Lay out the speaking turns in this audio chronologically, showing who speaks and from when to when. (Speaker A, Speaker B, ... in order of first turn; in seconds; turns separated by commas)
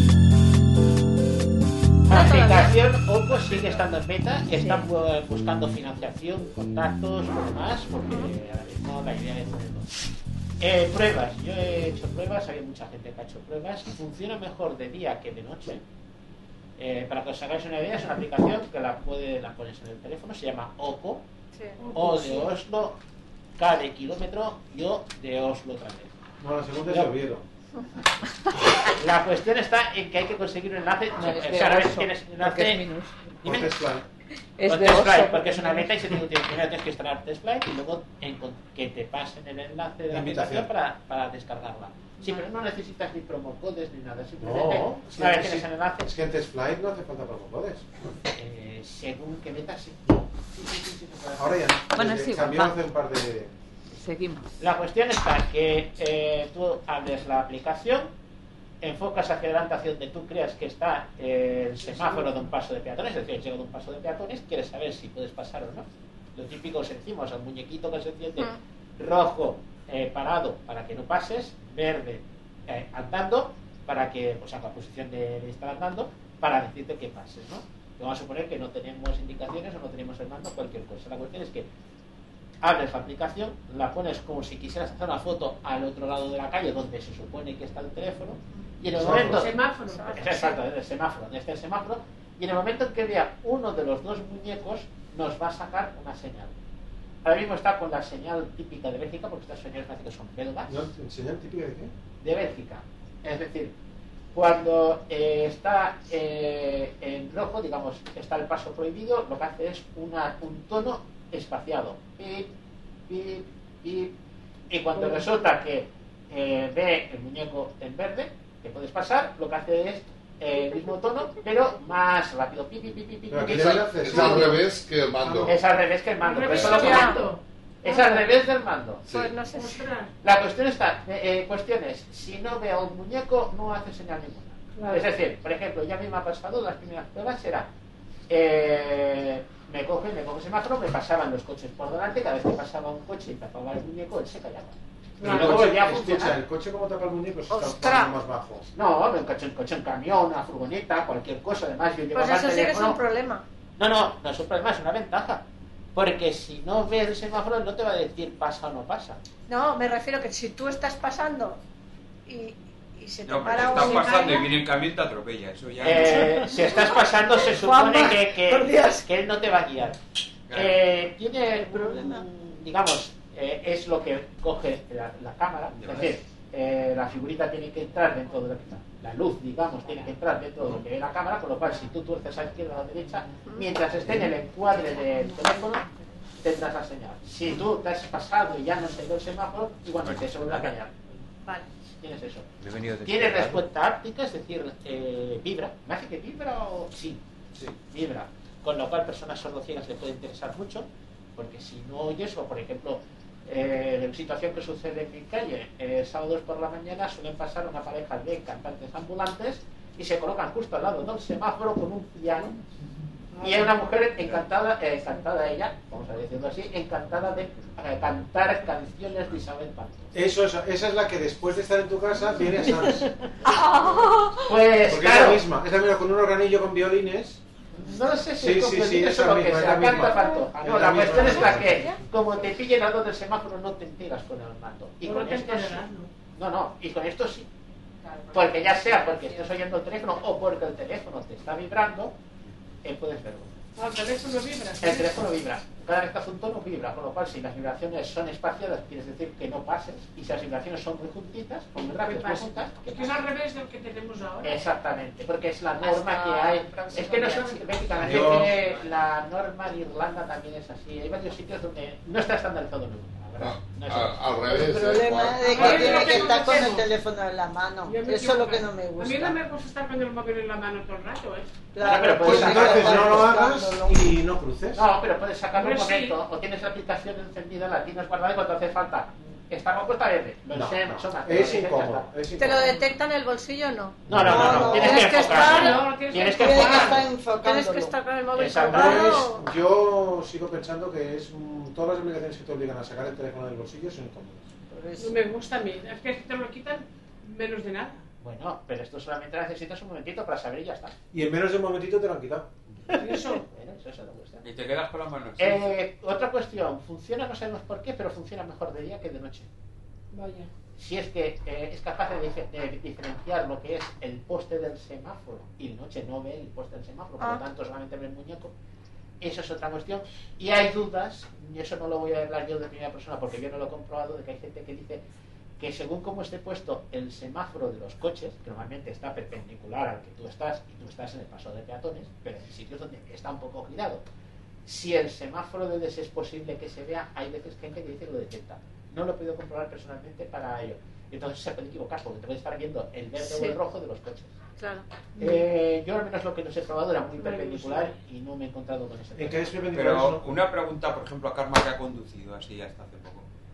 Speaker A: 2.1-9.9, Speaker B: 2.1-2.8, Speaker A: 10.6-15.8, Speaker A: 16.8-21.2, Speaker C: 21.8-22.5, Speaker A: 21.9-23.0, Speaker A: 23.6-26.1, Speaker D: 26.4-27.4, Speaker A: 28.7-32.8, Speaker E: 31.1-33.3, Speaker D: 33.4-34.0, Speaker A: 33.4-33.7, Speaker E: 34.6-35.9, Speaker A: 34.6-46.1, Speaker D: 40.1-40.7, Speaker D: 44.4-47.8, Speaker A: 48.3-51.6, Speaker D: 51.4-53.5, Speaker E: 51.9-52.7, Speaker E: 53.9-54.5, Speaker A: 54.6-58.1, Speaker A: 58.8-81.7, Speaker A: 82.6-89.5, Speaker D: 88.9-89.4, Speaker C: 89.1-90.4, Speaker B: 89.8-90.6, Speaker A: 90.2-96.5, Speaker A: 97.2-100.8, Speaker D: 100.7-101.9, Speaker A: 102.2-103.7, Speaker A: 104.3-112.5, Speaker A: 113.1-114.1, Speaker A: 114.7-124.6, Speaker C: 114.9-115.2, Speaker D: 123.3-124.6, Speaker F: 123.5-125.5, Speaker D: 125.2-125.5, Speaker A: 125.5-127.2, Speaker C: 126.2-128.3, Speaker B: 126.7-127.3, Speaker A: 127.8-129.1, Speaker B: 129.1-129.8, Speaker C: 129.5-130.1, Speaker A: 130.2-137.7, Speaker C: 134.7-135.1, Speaker A: 138.3-146.4, Speaker C: 145.2-145.6, Speaker D: 145.2-148.7, Speaker B: 147.5-148.2, Speaker A: 148.7-153.0, Speaker B: 152.1-153.4, Speaker A: 153.8-155.4, Speaker A: 155.9-159.2, Speaker B: 159.5-161.6, Speaker B: 162.3-164.5, Speaker G: 163.2-166.3, Speaker C: 163.5-164.5, Speaker A: 165.8-170.0, Speaker H: 166.7-169.0, Speaker G: 170.5-170.8, Speaker A: 170.5-185.9, Speaker H: 171.5-172.2, Speaker G: 175.8-176.1, Speaker B: 183.4-183.8, Speaker A: 186.4-190.9, Speaker G: 190.0-190.7, Speaker A: 192.0-192.5, Speaker G: 192.6-193.6, Speaker A: 193.0-197.2, Speaker A: 197.9-212.6, Speaker A: 213.4-220.1, Speaker C: 213.4-213.7, Speaker D: 220.1-223.1, Speaker H: 222.7-223.0, Speaker A: 224.4-225.4, Speaker D: 224.8-227.4, Speaker A: 227.8-237.5, Speaker D: 228.3-232.0, Speaker B: 231.6-232.0, Speaker C: 235.0-236.1, Speaker E: 238.0-239.5, Speaker A: 238.3-242.1, Speaker A: 242.8-243.5, Speaker C: 243.8-245.2, Speaker A: 244.8-253.2, Speaker C: 251.9-254.7, Speaker A: 254.4-264.2, Speaker B: 255.8-257.6, Speaker C: 256.9-257.4, Speaker D: 258.0-258.6, Speaker F: 263.4-266.8, Speaker H: 264.5-269.4, Speaker C: 265.4-266.9, Speaker C: 267.8-271.5, Speaker H: 271.7-274.0, Speaker A: 271.8-273.4, Speaker D: 272.0-274.8, Speaker A: 274.7-282.1, Speaker C: 275.5-276.2, Speaker D: 280.5-282.7, Speaker B: 282.4-284.0, Speaker D: 284.0-285.1, Speaker A: 284.1-287.1, Speaker H: 284.2-285.0, Speaker B: 284.8-285.8, Speaker C: 285.0-287.0, Speaker H: 286.3-287.9, Speaker B: 287.3-289.5, Speaker A: 288.4-289.3, Speaker D: 288.7-294.4, Speaker H: 294.7-295.2, Speaker C: 295.0-298.0, Speaker A: 298.2-300.9, Speaker D: 301.1-302.5, Speaker C: 302.9-303.4, Speaker A: 303.0-304.4, Speaker G: 304.4-305.7, Speaker A: 305.4-309.5, Speaker C: 310.1-310.5, Speaker A: 310.8-318.5, Speaker A: 319.2-325.0, Speaker A: 325.6-334.0, Speaker A: 334.6-344.3, Speaker B: 343.2-343.6, Speaker B: 344.6-344.9, Speaker C: 345.2-345.4, Speaker A: 345.2-349.6, Speaker C: 347.2-347.9, Speaker D: 349.1-350.3, Speaker G: 349.7-353.2